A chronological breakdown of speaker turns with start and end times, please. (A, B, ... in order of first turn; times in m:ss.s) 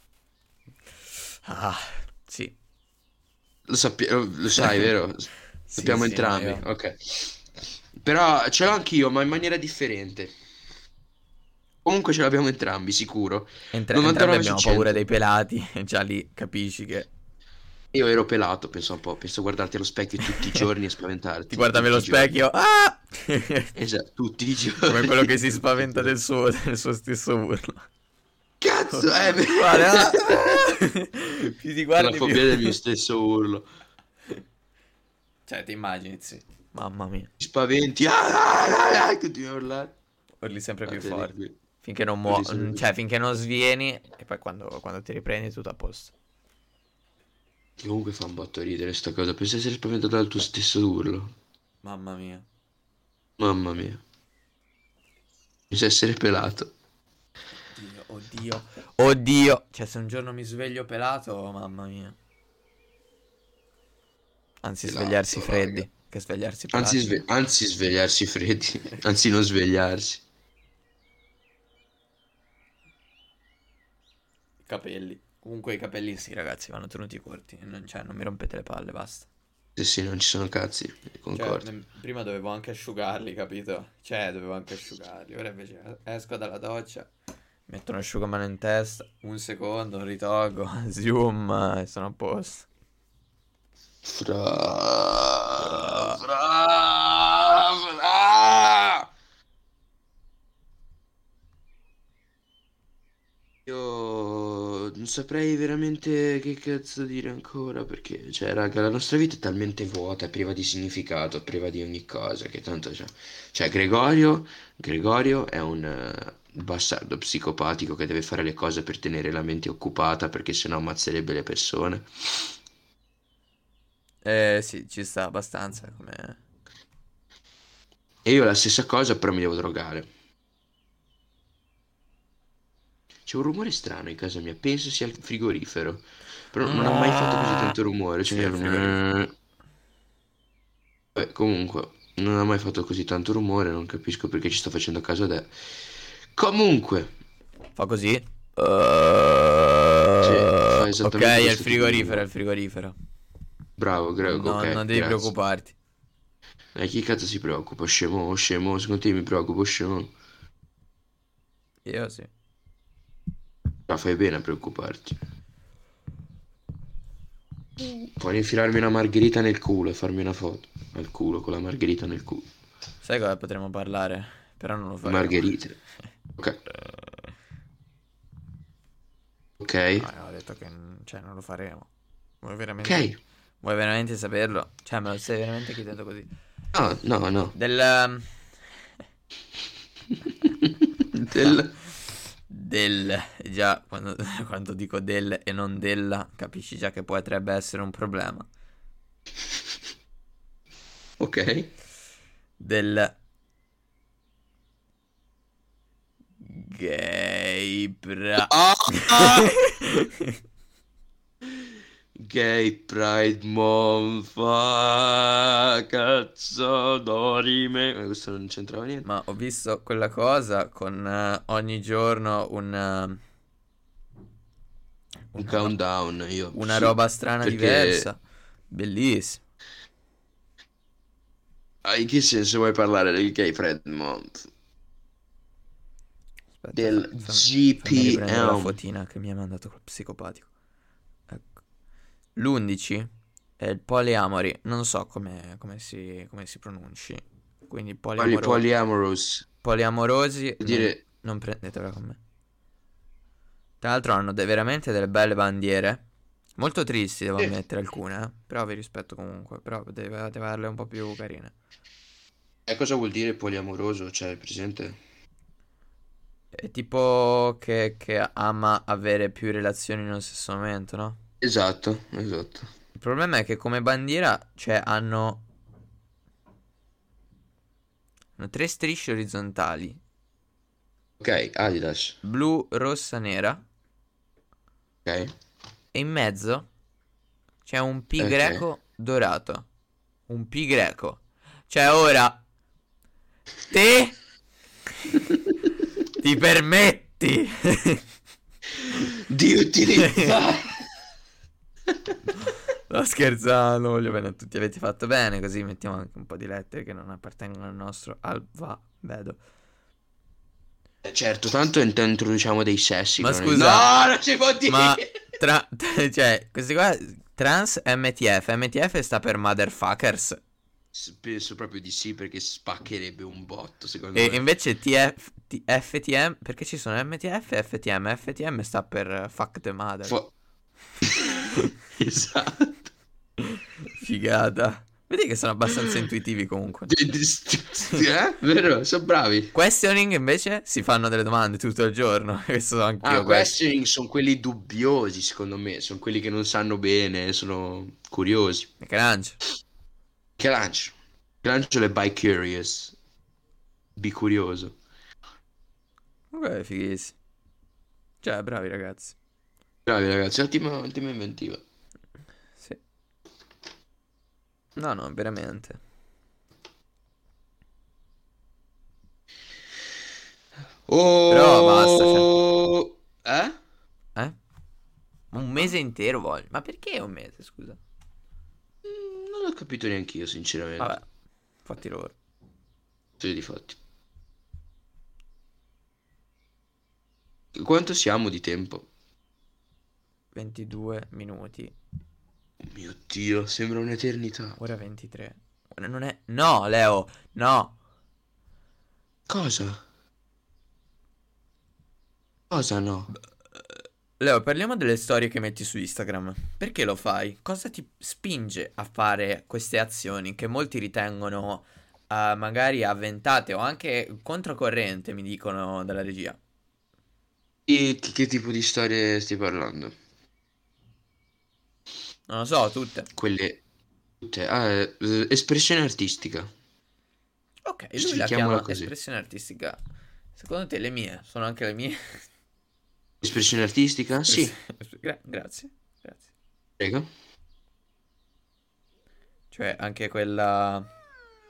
0:01.4-0:02.6 A
0:03.7-0:07.4 B
0:04.6-0:04.9 A
0:05.7-0:06.7 A
0:08.0-0:10.4 B
0:11.8-0:15.0 B
0:13.7-0:17.1 A
0:17.9-0:22.3 B
0:20.3-0:20.6 A
0:21.5-0:23.7 A
0:23.8-0:26.1 B
0:24.9-0:27.9 A
0:28.6-0:30.8 B
0:28.9-0:32.8 A
0:32.0-0:33.7 B
0:35.5-0:37.3 A
0:37.4-0:40.0 B
0:40.4-0:46.1 A
0:40.9-0:41.6 B
0:42.2-0:42.8 B
0:47.8-0:51.4 B
0:51.8-0:52.5 A
0:53.4-0:54.0 B
0:55.7-0:56.7 B
0:57.7-1:02.2 A
1:04.6-1:07.2 A
1:04.8-1:05.9 B
1:06.7-1:10.2 B
1:14.6-1:19.3 A
1:19.8-1:21.7 B
1:21.3-1:27.1 A
1:27.7-1:32.7 A
1:34.0-1:39.1 B
1:35.6-1:36.2 A
1:43.7-2:02.1 B
2:04.2-2:06.4 A
2:08.2-2:10.1 B
2:13.3-2:19.3 B
2:16.6-2:17.8 A
2:18.3-2:19.0 A
2:21.2-2:25.5 B
2:26.3-2:27.1 B
2:27.8-2:33.0 A
2:30.2-2:32.2 B
2:33.8-2:35.3 B
2:34.2-2:35.8 A
2:36.8-2:40.1 B
2:41.8-2:42.3 A
2:43.9-2:45.2 B
2:48.2-2:52.5 B
2:53.0-2:55.5 A
2:55.0-2:55.8 B
2:59.6-3:00.1 B
3:00.0-3:01.9 A
3:02.4-3:03.1 A
3:02.8-3:03.2 B
3:03.6-3:06.3 A
3:06.7-3:07.6 B
3:07.6-3:08.4 A
3:10.4-3:11.8 B
3:11.3-3:11.6 A
3:12.5-3:18.5 A
3:21.2-3:21.7 B
3:22.6-3:23.2 A
3:26.4-3:30.4 A
3:28.4-3:29.6 B
3:32.2-3:39.1 B
3:39.0-3:43.2 A
3:45.3-3:45.7 A
3:45.4-3:48.1 B
3:46.5-3:49.4 A
3:51.8-3:54.5 B
3:56.6-4:00.5 A
3:56.7-3:58.8 B
4:02.4-4:08.6 A
4:08.2-4:09.5 B
4:09.6-4:12.2 A
4:10.6-4:11.0 B
4:13.8-4:16.1 A
4:16.6-4:21.5 A
4:22.7-4:25.0 B
4:26.5-4:31.2 A
4:31.4-4:32.7 B
4:33.0-4:35.4 A
4:38.4-4:40.0 A
4:41.2-4:42.2 B
4:42.2-4:43.6 A
4:45.0-4:45.3 B
4:45.9-4:46.7 A
4:47.6-4:49.7 A
4:48.2-4:48.6 B
4:50.3-4:52.4 A
4:53.7-4:54.2 A
4:56.2-4:58.0 A
4:58.8-5:00.8 B
5:00.0-5:00.4 A
5:02.9-5:09.4 A
5:11.0-5:15.2 B
5:13.2-5:13.9 A
5:14.7-5:20.4 A
5:20.9-5:24.4 B
5:24.2-5:30.2 A
5:31.1-5:32.9 B
5:33.4-5:37.0 A
5:36.9-5:39.5 B
5:39.5-5:43.5 A
5:43.0-5:48.7 B
5:48.8-5:49.4 A
5:50.4-5:53.0 B
5:54.0-5:54.8 B
5:56.3-5:57.2 A
5:58.2-5:59.2 A
5:59.9-6:01.6 B
6:04.8-6:05.8 A
6:10.9-6:13.6 B
6:11.3-6:12.3 A
6:15.3-6:17.8 A
6:18.8-6:21.0 B
6:20.8-6:21.0 A
6:21.6-6:22.2 A
6:23.2-6:23.8 B
6:27.6-6:28.9 B
6:30.3-6:31.7 A
6:32.6-6:34.6 B
6:34.6-6:37.8 A
6:39.3-6:39.8 B
6:42.5-6:43.1 B
6:44.2-6:56.4 A
6:57.7-7:00.0 B
7:02.3-7:03.1 A
7:03.1-7:03.6 B
7:04.2-7:06.5 B
7:07.6-7:09.8 A
7:08.0-7:08.9 B
7:10.4-7:12.2 A
7:13.2-7:14.6 B
7:14.3-7:16.3 A
7:16.8-7:17.1 B
7:19.5-7:20.9 A